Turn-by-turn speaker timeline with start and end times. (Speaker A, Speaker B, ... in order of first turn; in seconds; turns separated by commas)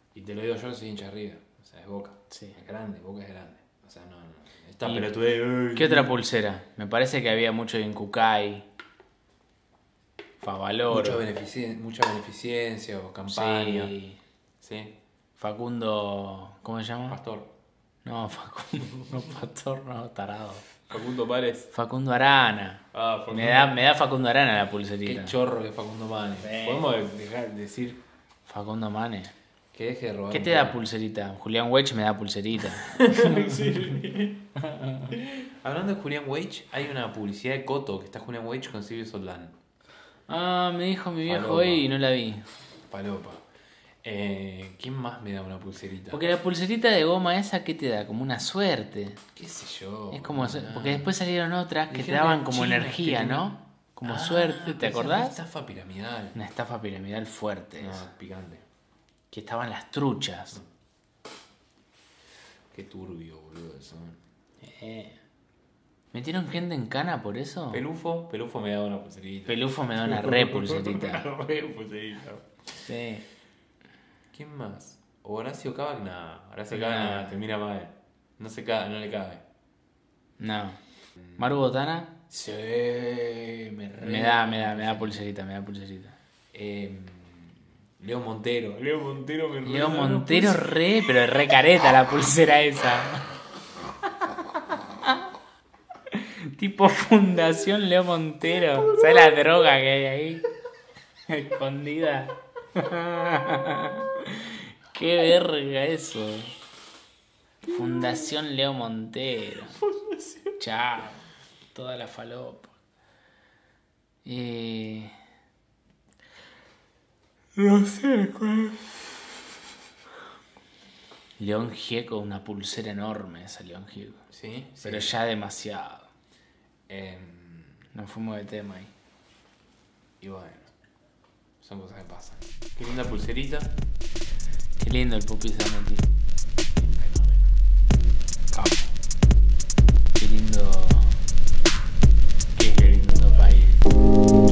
Speaker A: 0.1-6.2, Speaker B: 2.3-2.6, Speaker B: 4.8-5.1, Speaker B: 5.7-8.7, Speaker B: 10.4-11.3, Speaker A: 10.9-13.9, Speaker B: 13.3-14.2, Speaker A: 14.6-14.9, Speaker B: 15.4-17.2, Speaker A: 17.1-17.5, Speaker B: 18.0-20.6, Speaker A: 20.9-21.7, Speaker B: 21.7-25.4, Speaker A: 22.9-23.8, Speaker A: 25.1-28.0, Speaker B: 26.4-26.9, Speaker B: 28.5-29.3, Speaker A: 29.7-30.8, Speaker B: 30.3-34.0, Speaker A: 32.9-34.5, Speaker B: 34.6-35.2, Speaker A: 35.1-39.6, Speaker B: 40.3-42.5, Speaker A: 41.2-41.9, Speaker A: 42.9-43.4, Speaker A: 44.0-46.2, Speaker B: 46.1-49.2, Speaker A: 49.4-51.1, Speaker B: 50.1-55.4, Speaker A: 51.9-53.5, Speaker A: 54.0-56.4, Speaker B: 56.3-58.1, Speaker A: 57.8-58.6, Speaker B: 59.3-60.6, Speaker A: 62.7-64.2, Speaker B: 64.6-65.2, Speaker B: 66.1-67.8, Speaker A: 67.7-72.5, Speaker B: 69.5-71.3, Speaker B: 72.8-73.2, Speaker A: 74.3-79.4, Speaker B: 76.7-77.4, Speaker B: 80.4-80.8, Speaker A: 81.2-81.5, Speaker B: 81.4-82.2, Speaker A: 82.3-85.2, Speaker B: 84.0-86.2, Speaker A: 86.5-90.8, Speaker B: 89.6-93.2, Speaker B: 96.1-100.5, Speaker B: 101.3-106.5, Speaker B: 107.7-109.8, Speaker B: 110.6-112.7, Speaker B: 114.2-115.1, Speaker B: 117.6-119.1, Speaker B: 121.4-124.2, Speaker A: 124.3-125.2, Speaker B: 124.8-126.1, Speaker A: 126.9-127.8, Speaker B: 127.9-128.9, Speaker A: 130.2-130.7, Speaker A: 131.6-133.7, Speaker B: 134.8-136.1, Speaker A: 136.8-137.5, Speaker B: 138.5-138.9, Speaker B: 140.2-141.2, Speaker B: 142.5-143.9, Speaker A: 142.8-143.8